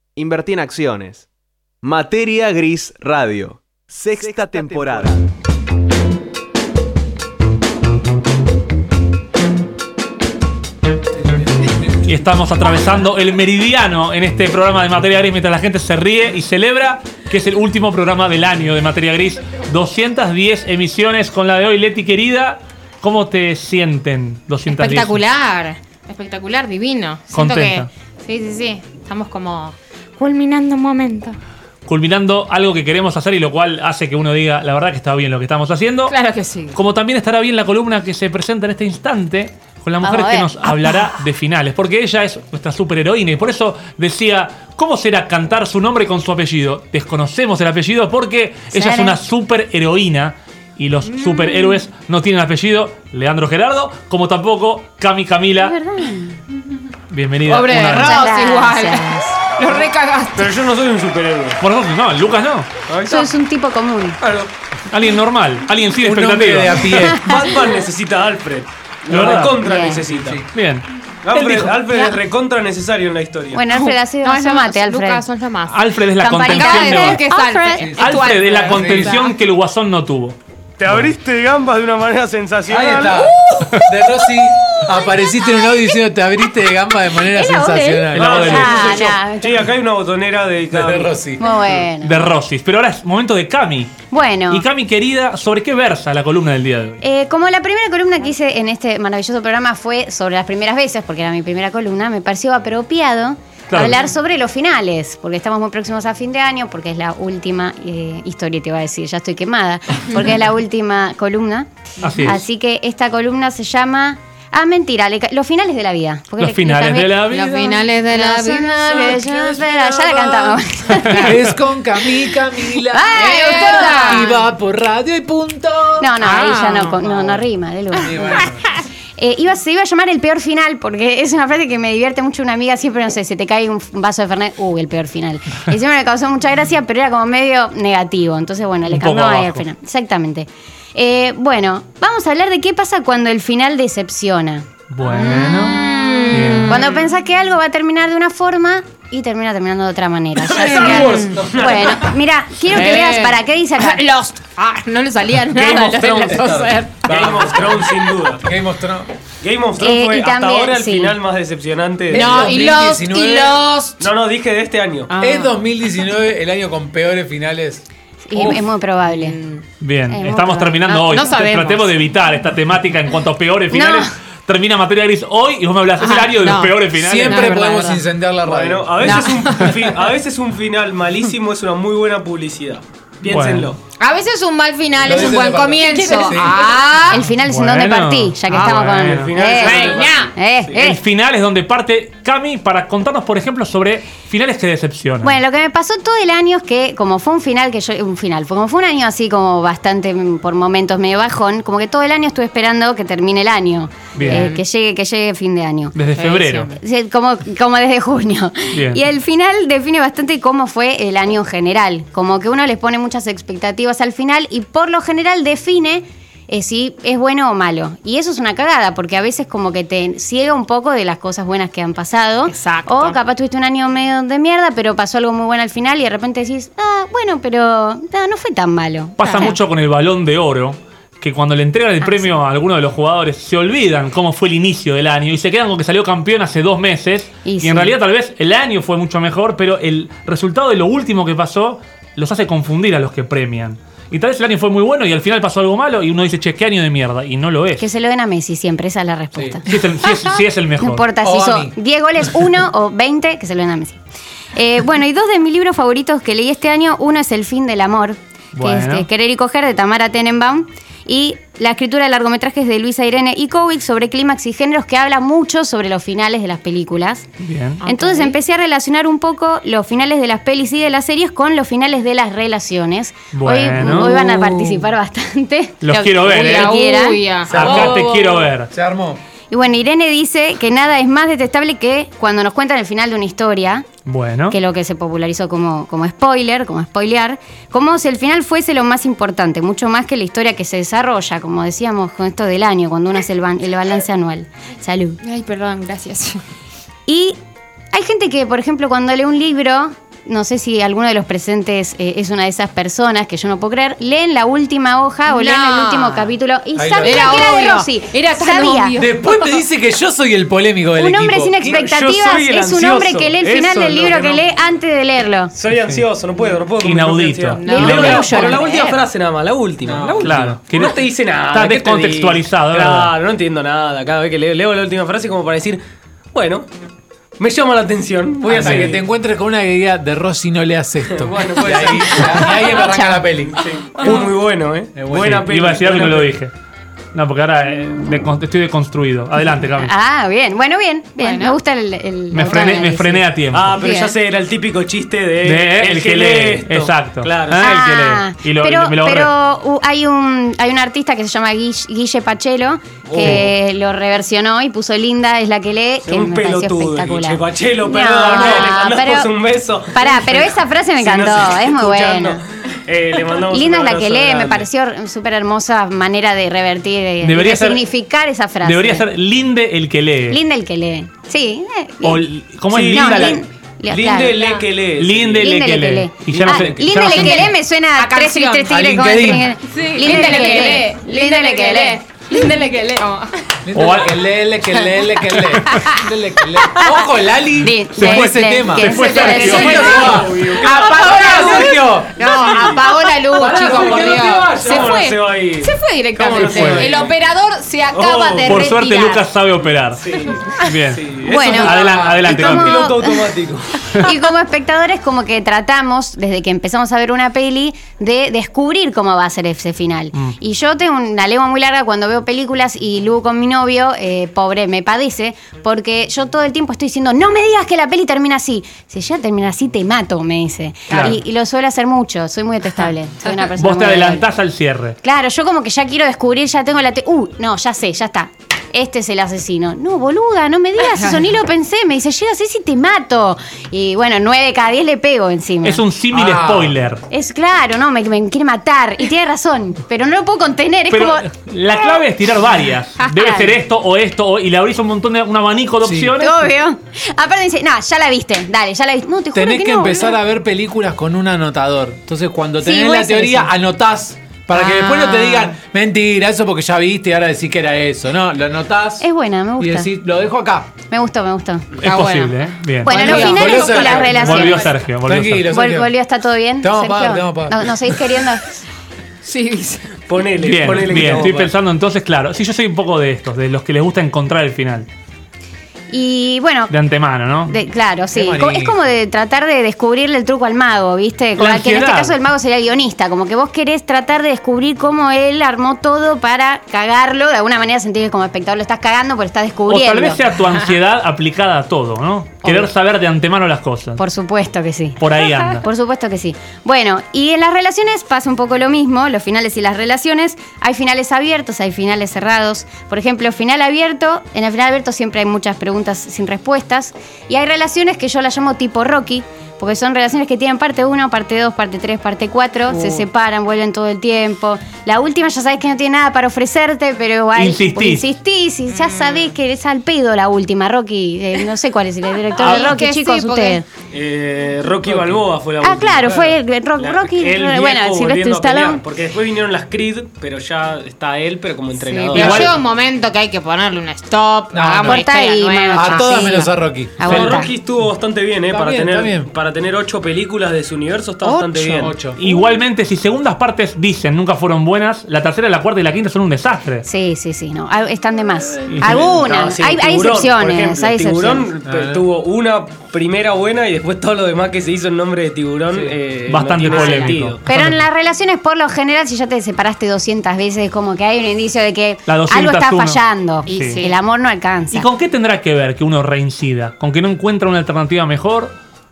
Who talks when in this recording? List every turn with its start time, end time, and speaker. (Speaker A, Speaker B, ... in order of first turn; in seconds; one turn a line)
Speaker A: 0.1-1.3
Speaker A: 1.8-5.2
Speaker B: 11.2-12.1
Speaker C: 12.0-25.2
Speaker D: 24.7-31.4
Speaker C: 27.3-27.9
Speaker C: 31.9-36.2
Speaker D: 36.1-36.8
Speaker C: 36.7-55.7
Speaker D: 40.0-41.2
Speaker E: 48.7-49.1
Speaker D: 51.2-51.8
Speaker E: 55.6-56.4
Speaker C: 57.1-58.2
Speaker D: 57.5-60.6
Speaker E: 57.9-59.4
Speaker F: 60.4-61.6
Speaker C: 61.6-62.7
Speaker F: 62.9-63.3
Speaker E: 63.0-64.2
Speaker F: 64.2-64.5
Speaker C: 64.9-67.1
Speaker B: 66.0-67.5
Speaker F: 67.2-70.4
Speaker C: 69.1-69.6
Speaker E: 69.6-70.0
Speaker B: 70.1-70.4
Speaker C: 70.5-71.8
Speaker F: 71.2-73.6
Speaker E: 73.5-75.2
Speaker D: 73.7-75.8
Speaker C: 75.7-77.2
Speaker E: 76.2-77.9
Speaker D: 76.5-79.3
Speaker B: 77.8-78.0
Speaker C: 78.0-80.3
Speaker B: 78.7-79.2
Speaker F: 80.8-83.7
Speaker B: 82.7-88.6
Speaker E: 83.8-85.9
Speaker E: 87.1-89.7
Speaker C: 88.1-89.1
Speaker F: 88.2-91.2
Speaker B: 90.7-91.4
Speaker E: 91.4-92.3
Speaker C: 92.0-97.0
Speaker E: 94.1-94.6
Speaker E: 97.0-111.7
Speaker C: 103.7-104.0
Speaker C: 112.0-112.4
Speaker E: 112.2-117.2
Speaker C: 116.4-117.8
Speaker D: 117.3-119.1
Speaker E: 118.1-121.4
Speaker B: 118.8-126.1
Speaker C: 121.1-121.4
Speaker E: 122.9-124.4
Speaker D: 123.1-124.4
Speaker E: 126.0-128.5
Speaker D: 126.2-127.2
Speaker B: 128.0-128.6
Speaker D: 128.1-128.5
Speaker E: 129.2-154.0
Speaker C: 138.9-139.6
Speaker C: 144.9-145.8
Speaker D: 145.0-147.1
Speaker C: 146.3-146.8
Speaker B: 150.4-152.1
Speaker F: 150.5-152.1
Speaker D: 150.8-151.4
Speaker D: 152.7-157.4
Speaker B: 155.5-159.1
Speaker F: 157.0-158.5
Speaker F: 159.4-162.7
Speaker E: 159.8-161.2
Speaker D: 162.1-163.9
Speaker B: 162.1-163.7
Speaker F: 164.0-165.1
Speaker D: 165.1-165.5
Speaker B: 165.2-167.8
Speaker E: 168.2-169.4
Speaker D: 169.1-169.6
Speaker C: 169.8-177.5
Speaker E: 170.1-170.9
Speaker D: 170.8-171.9
Speaker E: 173.7-174.1
Speaker D: 176.0-178.0
Speaker B: 176.9-179.5
Speaker F: 178.4-183.8
Speaker D: 179.0-179.9
Speaker C: 183.2-183.7
Speaker D: 184.0-187.3
Speaker B: 185.0-186.7
Speaker E: 187.1-191.0
Speaker C: 187.2-189.3
Speaker D: 188.5-190.3
Speaker F: 188.8-190.8
Speaker C: 190.7-195.4
Speaker E: 195.2-206.0
Speaker C: 204.1-204.5
Speaker D: 204.2-204.6
Speaker C: 205.9-206.7
Speaker D: 206.1-206.8
Speaker E: 206.8-229.6
Speaker C: 208.7-209.0
Speaker D: 222.5-223.2
Speaker C: 229.2-247.9
Speaker D: 229.2-229.5
Speaker E: 232.0-232.3
Speaker E: 237.4-237.9
Speaker E: 247.8-254.0
Speaker C: 249.7-251.1
Speaker B: 251.2-251.7
Speaker E: 254.5-267.3
Speaker C: 258.5-259.1
Speaker C: 267.4-267.8
Speaker D: 267.8-268.4
Speaker E: 267.8-277.2
Speaker C: 273.3-274.1
Speaker D: 273.8-274.9
Speaker C: 275.8-276.8
Speaker D: 275.9-278.5
Speaker B: 277.5-278.1
Speaker C: 277.5-278.7
Speaker B: 278.7-279.2
Speaker E: 279.5-283.9
Speaker C: 284.1-284.6
Speaker E: 284.5-295.2
Speaker D: 295.2-296.4
Speaker E: 297.1-297.4
Speaker E: 297.9-308.9
Speaker D: 305.3-306.3
Speaker B: 306.7-307.4
Speaker D: 307.0-309.6
Speaker B: 308.9-311.6
Speaker E: 310.9-315.5
Speaker F: 311.6-314.4
Speaker F: 315.5-325.8
Speaker C: 315.7-316.1
Speaker C: 316.8-318.4
Speaker D: 317.6-318.9
Speaker E: 317.6-319.0
Speaker B: 319.8-320.5
Speaker C: 320.2-323.1
Speaker F: 326.3-326.7
Speaker F: 327.4-329.0
Speaker B: 328.4-333.6
Speaker C: 328.6-328.9
Speaker F: 331.1-332.8
Speaker F: 333.5-336.3
Speaker B: 334.9-335.5
Speaker C: 335.2-336.5
Speaker C: 337.1-339.9
Speaker E: 339.7-343.2
Speaker D: 341.2-341.6
Speaker C: 342.3-343.8
Speaker F: 343.5-347.7
Speaker D: 343.8-344.1
Speaker C: 345.4-349.3
Speaker E: 347.6-359.3
Speaker F: 353.1-353.5
Speaker C: 353.2-353.4
Speaker F: 356.0-364.7
Speaker E: 359.9-362.4
Speaker E: 363.5-369.0
Speaker C: 367.2-367.8
Speaker C: 368.6-370.4
Speaker E: 370.3-372.2
Speaker C: 372.0-373.4
Speaker F: 372.7-375.5
Speaker E: 372.9-374.5
Speaker D: 374.3-374.6
Speaker C: 375.0-377.5
Speaker E: 375.4-382.4
Speaker F: 376.3-377.0
Speaker D: 377.0-378.7
Speaker B: 378.7-379.6
Speaker D: 379.6-383.5
Speaker B: 383.6-392.4
Speaker C: 383.7-384.3
Speaker D: 385.6-386.1
Speaker D: 386.6-386.8
Speaker E: 387.6-389.9
Speaker C: 387.9-390.2
Speaker D: 388.9-399.2
Speaker F: 389.3-392.9
Speaker B: 393.3-394.9
Speaker F: 393.5-397.1
Speaker B: 396.3-396.9
Speaker C: 396.4-396.9
Speaker F: 397.9-398.7
Speaker C: 398.4-402.9
Speaker F: 400.0-404.0
Speaker E: 401.2-403.3
Speaker B: 401.7-402.2
Speaker E: 404.0-424.2
Speaker C: 420.9-421.2
Speaker C: 423.5-425.0
Speaker E: 425.0-435.8
Speaker C: 435.6-437.0
Speaker B: 436.1-436.8
Speaker E: 437.1-441.3
Speaker C: 440.9-446.5
Speaker E: 443.0-443.5
Speaker B: 445.8-446.1
Speaker E: 446.2-450.2
Speaker B: 449.3-459.1
Speaker E: 452.6-453.5
Speaker E: 454.6-455.4
Speaker D: 454.7-455.4
Speaker E: 459.0-459.9
Speaker B: 459.6-460.7
Speaker E: 460.9-461.7
Speaker C: 461.8-463.3
Speaker D: 461.8-464.8
Speaker E: 462.8-464.7
Speaker B: 462.9-464.4
Speaker C: 464.1-465.5
Speaker B: 465.0-465.9
Speaker E: 465.5-468.4
Speaker B: 466.6-468.0
Speaker D: 469.2-470.0
Speaker F: 470.1-471.5
Speaker C: 470.4-474.9
Speaker B: 470.9-471.3
Speaker E: 475.9-476.7
Speaker C: 476.7-477.5
Speaker E: 477.5-490.2
Speaker B: 478.1-478.8
Speaker C: 481.4-482.1
Speaker C: 489.7-494.0
Speaker E: 492.4-492.7
Speaker E: 494.0-523.6
Speaker C: 495.0-495.6
Speaker D: 512.7-513.0
Speaker C: 517.4-518.0
Speaker D: 518.7-519.3
Speaker D: 522.3-523.6
Speaker F: 523.9-532.6
Speaker E: 525.6-528.8
Speaker B: 526.0-526.3
Speaker D: 531.8-536.4
Speaker C: 532.1-532.6
Speaker B: 534.5-535.0
Speaker E: 534.9-537.5
Speaker B: 535.7-537.1
Speaker F: 537.0-542.0
Speaker C: 537.0-537.4
Speaker B: 538.5-539.3
Speaker D: 541.2-541.9
Speaker B: 541.8-542.2
Speaker C: 542.1-546.9
Speaker E: 546.9-551.5
Speaker C: 548.7-549.0
Speaker F: 548.8-557.4
Speaker B: 551.6-552.0
Speaker B: 555.7-556.0
Speaker C: 556.3-557.8
Speaker D: 556.7-557.1
Speaker E: 557.5-564.9
Speaker C: 562.1-563.8
Speaker D: 563.5-564.0
Speaker C: 564.7-568.5